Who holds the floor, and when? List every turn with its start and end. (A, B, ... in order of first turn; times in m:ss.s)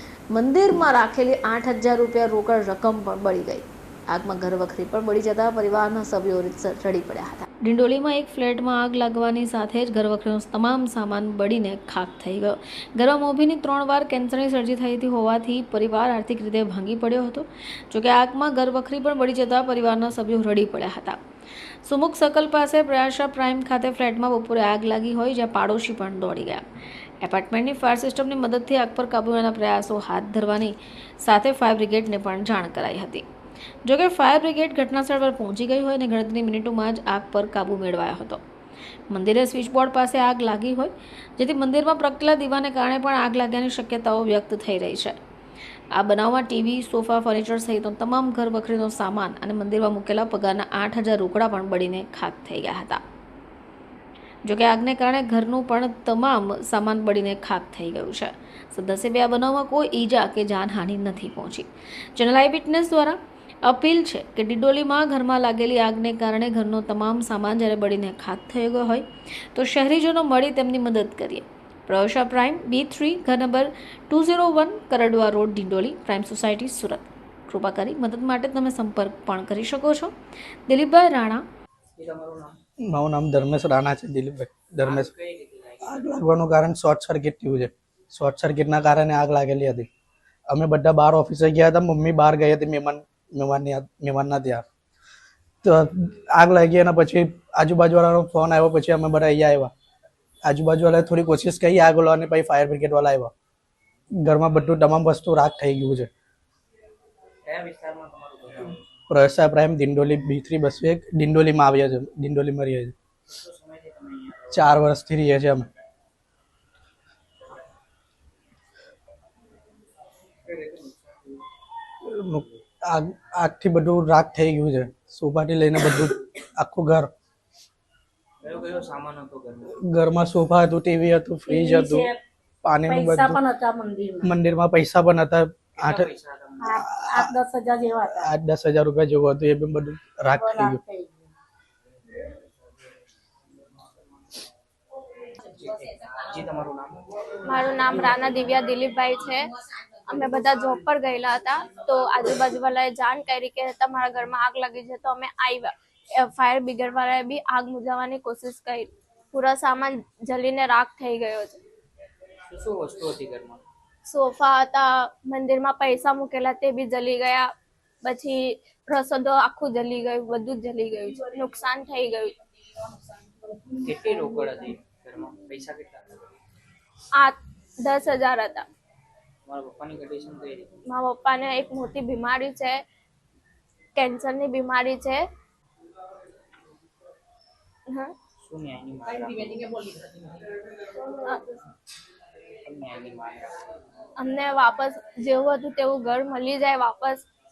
0:00.3-0:21.2 A
0:21.8-0:26.6 A
0:27.2-0:33.2 A
0:33.8-0:38.4 A
0:39.1-0:45.2 A
0:45.9-0:53.0 A
0:54.4-1:20.1 A
1:20.7-1:21.4 A
1:21.9-1:22.6 B
1:22.9-1:25.1 C
1:24.8-1:26.0 B
1:25.8-1:29.9 C
1:30.5-1:34.6 C
1:35.6-1:39.7 C
1:40.4-1:43.3 C
1:44.1-1:46.1 C
1:47.4-1:48.8 B
1:49.1-1:52.9 C
1:53.3-1:54.8 B
1:54.5-1:55.7 C
2:00.4-2:01.4 B
2:02.0-2:07.1 C
2:08.4-2:09.8 B
2:09.8-2:12.1 C
2:11.5-2:12.2 D
2:12.6-2:13.4 C
2:12.8-2:14.3 D
2:14.2-2:16.1 C
2:15.8-2:16.8 B
2:16.6-2:18.3 D
2:16.8-2:17.3 C
2:18.1-2:20.8 C
2:20.3-2:21.1 D
2:25.4-2:28.1 B
2:27.4-2:29.4 E
2:30.1-2:41.6 E
2:42.5-2:43.6 B
2:44.0-2:52.3 E
2:53.7-2:56.2 B
2:57.1-2:58.7 E
2:59.4-3:00.7 B
3:00.9-3:02.8 E
3:04.0-3:05.2 E
3:07.9-3:08.1 E
3:08.4-3:09.9 B
3:11.1-3:11.6 E
3:12.6-3:13.5 B
3:14.2-3:17.3 E